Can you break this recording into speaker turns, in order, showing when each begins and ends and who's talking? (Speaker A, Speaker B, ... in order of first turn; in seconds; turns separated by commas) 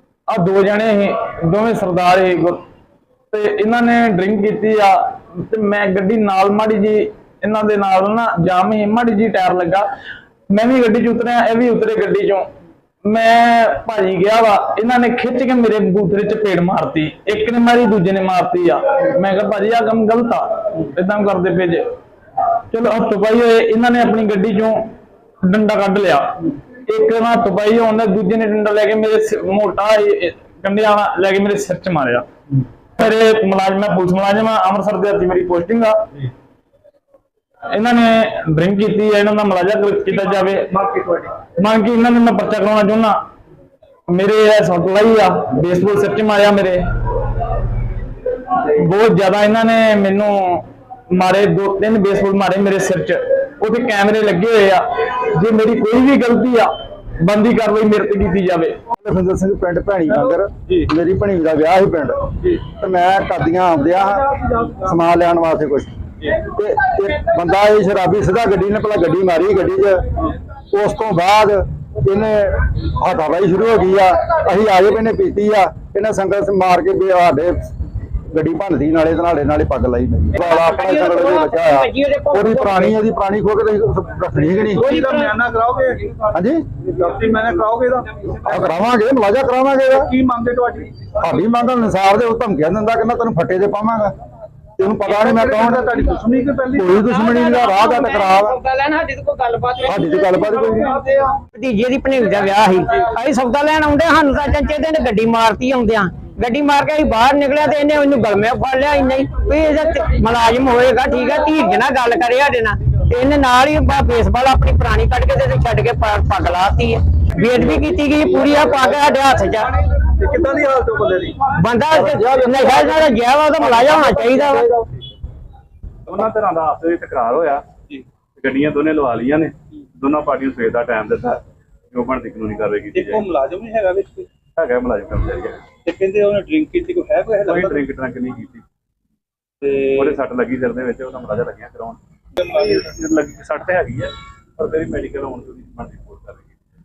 Speaker A: 0.3-2.6, Speaker A: 3.3-9.8, Speaker A: 10.5-12.5, Speaker A: 13.0-21.8, Speaker A: 22.7-24.8, Speaker A: 25.4-32.2, Speaker A: 33.0-36.0, Speaker A: 37.7-40.7, Speaker B: 40.6-41.3, Speaker A: 41.5-43.2, Speaker A: 44.1-46.8, Speaker A: 48.5-56.7, Speaker A: 57.2-58.8, Speaker C: 59.0-70.0, Speaker B: 60.2-60.9, Speaker B: 64.4-64.8, Speaker C: 70.7-77.7, Speaker C: 78.3-84.9, Speaker D: 80.3-82.9, Speaker B: 84.8-86.2, Speaker D: 84.8-85.3, Speaker C: 86.3-86.6, Speaker B: 86.8-88.5, Speaker C: 88.4-90.1, Speaker B: 89.9-91.1, Speaker C: 91.2-94.1, Speaker C: 94.8-95.9, Speaker B: 95.1-96.9, Speaker C: 96.8-98.6, Speaker D: 97.0-100.3, Speaker C: 99.8-101.0, Speaker B: 100.8-101.4, Speaker D: 101.5-119.8, Speaker C: 117.4-119.0, Speaker B: 120.1-121.4, Speaker D: 121.5-124.7, Speaker C: 121.9-124.9, Speaker E: 126.1-127.7, Speaker E: 128.3-133.2, Speaker B: 132.9-134.3, Speaker E: 134.6-135.7, Speaker B: 135.8-137.8, Speaker E: 137.4-138.6, Speaker E: 139.8-146.5, Speaker B: 142.4-142.8